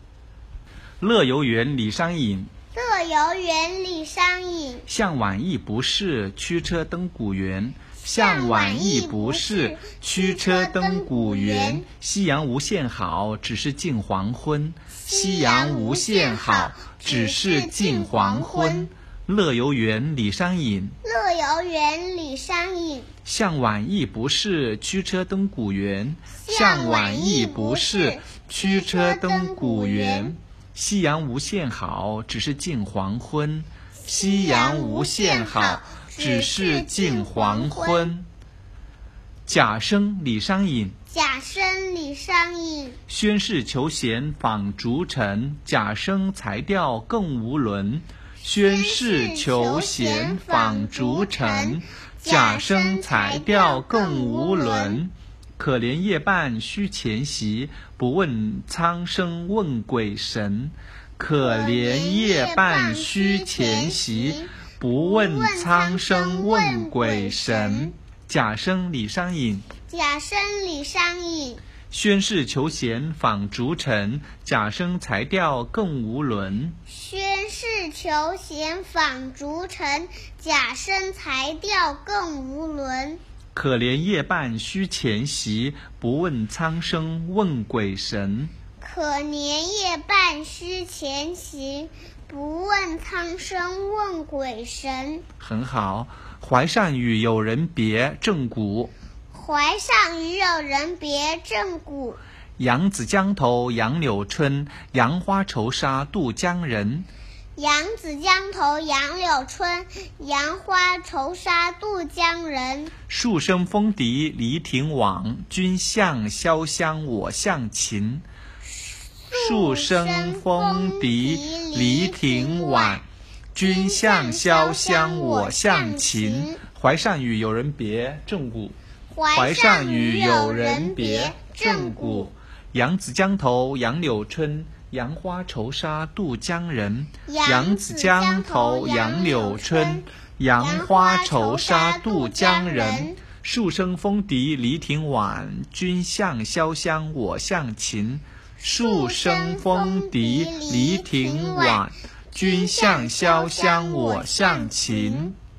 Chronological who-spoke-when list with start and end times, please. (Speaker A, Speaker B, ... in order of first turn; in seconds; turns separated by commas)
Speaker A: 1.0-2.5, Speaker B: 2.7-4.9, Speaker A: 4.9-21.0, Speaker B: 8.0-11.8, Speaker B: 15.0-18.9, Speaker B: 21.0-23.1, Speaker A: 23.2-38.2, Speaker B: 26.4-30.3, Speaker B: 34.0-38.1, Speaker A: 39.5-41.0, Speaker B: 41.1-43.0, Speaker A: 43.1-69.7, Speaker B: 48.5-55.0, Speaker B: 61.4-67.9, Speaker B: 69.9-71.6, Speaker A: 71.9-76.8, Speaker B: 76.9-83.2, Speaker A: 83.5-88.5, Speaker B: 88.8-95.2, Speaker A: 95.4-98.9, Speaker B: 99.3-102.2, Speaker A: 102.6-107.1, Speaker B: 107.5-112.9, Speaker A: 113.1-118.2, Speaker B: 118.8-123.0, Speaker A: 119.3-123.0, Speaker A: 123.5-128.7, Speaker B: 123.6-126.6, Speaker B: 129.1-132.3, Speaker A: 129.3-155.3, Speaker B: 137.2-140.0, Speaker B: 140.6-143.2, Speaker B: 148.6-155.3